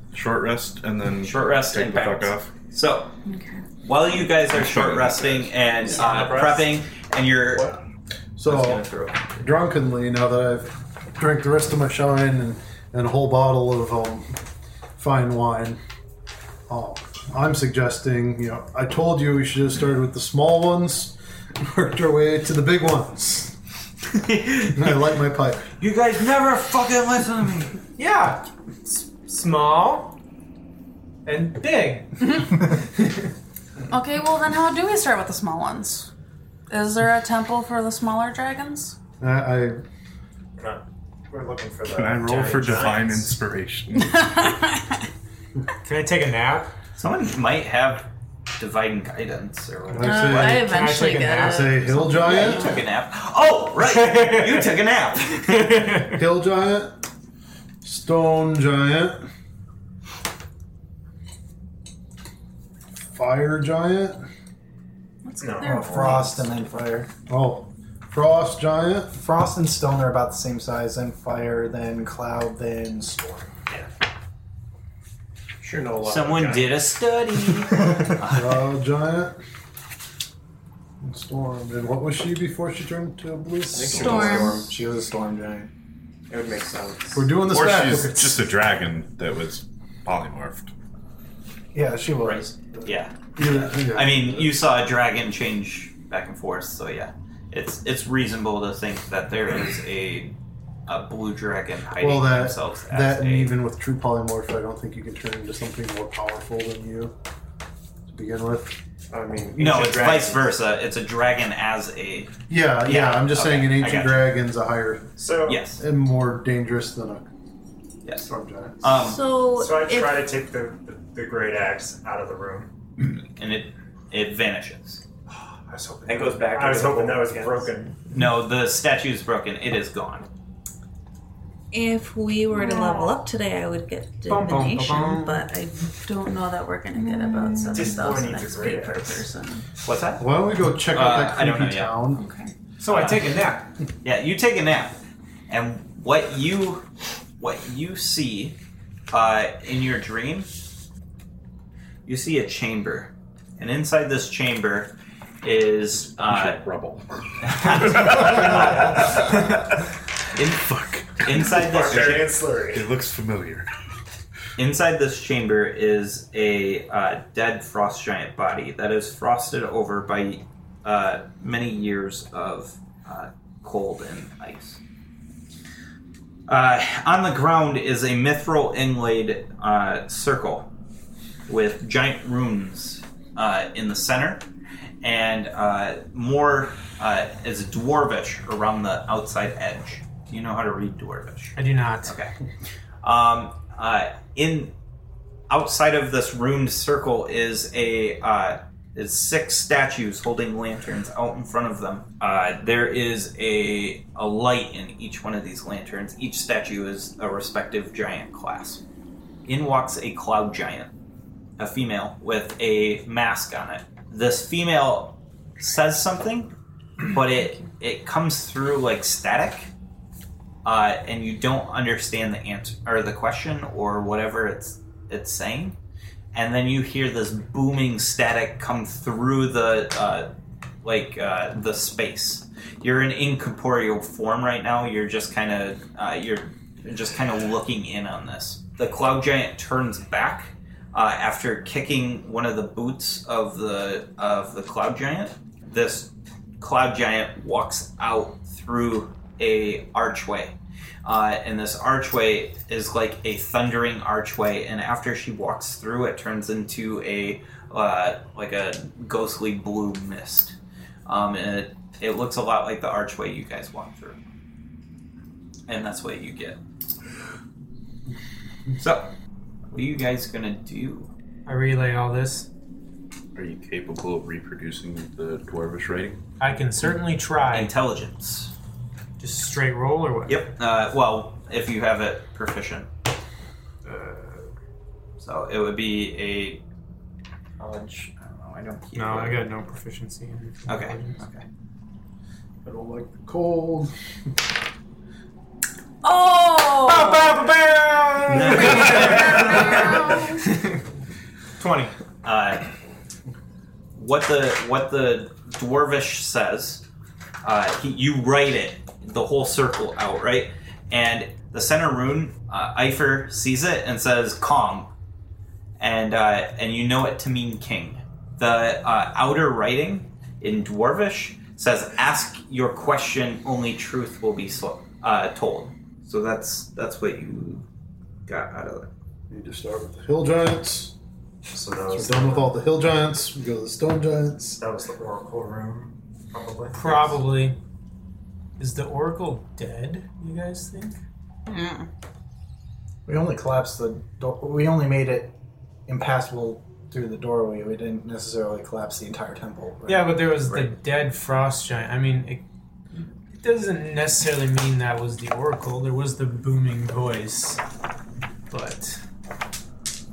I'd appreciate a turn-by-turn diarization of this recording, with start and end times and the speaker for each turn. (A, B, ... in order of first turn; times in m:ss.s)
0:00.1-0:02.5 A
0:01.2-0:03.1 B
0:03.3-0:03.6 C
0:03.8-0:07.8 B
0:04.1-0:05.8 A
0:05.8-0:06.7 D
0:08.4-0:08.8 E
0:08.4-0:09.4 B
0:09.4-0:14.4 E
0:15.0-0:15.8 E
0:16.7-0:23.6 E
0:24.1-0:25.0 B
0:24.7-0:25.7 E
0:25.8-0:27.8 B
0:28.0-0:30.2 F
0:31.2-0:33.3 F
0:33.9-0:36.1 C
0:36.7-0:39.0 C
0:39.2-0:39.8 E
0:40.6-0:43.3 D
0:41.9-0:44.5 A
0:44.0-0:45.0 C
0:45.8-0:46.7 F
0:47.0-0:50.6 B
0:49.9-0:50.8 E
0:50.0-0:52.8 C
0:50.5-0:51.8 F
0:51.4-0:52.7 E
0:52.1-0:55.9 B
0:53.8-0:54.7 F
0:55.3-0:56.2 F
0:56.1-0:57.0 E
0:57.8-0:59.3 E
1:03.1-1:04.2 E
1:05.2-1:06.4 C
1:05.4-1:06.3 D
1:05.6-1:07.1 G
1:07.3-1:09.2 E
1:09.2-1:13.5 G
1:15.6-1:16.8 H
1:16.0-1:18.6 B
1:18.3-1:19.4 E
1:21.0-1:24.5 E
1:23.7-1:24.7 H
1:23.9-1:24.7 C
1:23.9-1:24.2 A
1:24.3-1:25.7 G
1:26.3-1:27.4 H
1:27.1-1:28.5 E
1:27.5-1:30.7 A
1:31.7-1:32.8 G
1:32.2-1:40.3 B
1:33.4-1:34.5 E
1:40.9-1:43.6 B
1:42.0-1:47.1 E
1:48.1-1:48.8 E
1:49.1-1:50.5 H
1:49.6-1:54.4 B
1:52.5-1:55.1 E
1:55.2-1:55.6 D
1:55.4-1:55.8 B
1:55.8-1:57.3 E
1:58.0-1:58.3 B
1:58.2-1:58.9 E
1:58.8-1:59.2 B
1:58.9-2:00.3 C
1:59.6-2:02.7 D
2:03.0-2:05.0 B
2:05.3-2:08.0 D
2:06.1-2:07.7 H
2:08.1-2:10.3 B
2:11.7-2:19.6 C
2:12.7-2:13.1 D
2:14.3-2:15.5 F
2:17.7-2:19.2 D
2:19.8-2:20.3 B
2:20.2-2:22.3 E
2:20.9-2:22.0 B
2:22.1-2:22.5 C
2:22.8-2:23.7 F
2:22.9-2:23.3 B
2:24.0-2:25.0 B
2:25.5-2:26.9 B
2:27.4-2:28.6 B
2:29.1-2:30.5 B
2:32.0-2:36.6 B
2:36.2-2:39.6 A
2:37.4-2:39.5 B
2:40.4-2:42.3 B
2:40.4-2:43.7 A
2:41.5-2:42.9 D
2:44.6-2:54.8 B
2:56.5-3:00.7 B
3:01.5-3:04.4 B
3:05.0-3:12.3 B
3:11.6-3:12.2 F
3:13.0-3:14.7 B
3:15.5-3:28.8 B
3:29.4-3:30.9 B
3:31.6-3:36.5 B
3:37.0-3:39.7 B
3:40.6-3:45.8 B
3:46.3-3:50.3 B
3:50.8-4:24.2 B
4:25.7-4:26.6 B
4:28.8-4:29.1 B
4:29.7-4:31.1 B
4:31.4-4:32.5 F
4:33.3-4:36.2 A
4:36.4-4:37.7 F
4:37.5-4:38.5 B
4:39.2-4:40.5 F
4:40.3-4:42.9 B
4:43.8-4:44.5 H
4:45.2-4:46.6 B
4:47.6-4:49.4 B
4:48.9-4:51.2 F
4:50.7-4:51.4 B
4:52.6-4:53.9 E
4:56.0-4:57.4 C
4:56.8-5:00.8 F
4:58.3-5:00.0 B
4:58.7-5:00.4 C
5:01.6-5:01.9 F
5:02.2-5:02.6 B
5:04.0-5:06.8 B
5:07.4-5:14.9 B
5:15.8-5:27.7 B
5:28.3-5:28.9 B
5:29.3-5:30.9 E
5:31.5-5:32.6 D
5:31.9-5:34.6 E
5:34.6-5:37.1 D
5:36.7-5:37.6 F
5:38.6-5:41.0 F
5:41.5-5:41.9 C
5:43.0-5:45.3 G
5:45.9-5:50.7 G
5:49.9-5:52.4 F
5:53.3-5:57.6 F
5:58.5-5:59.0 F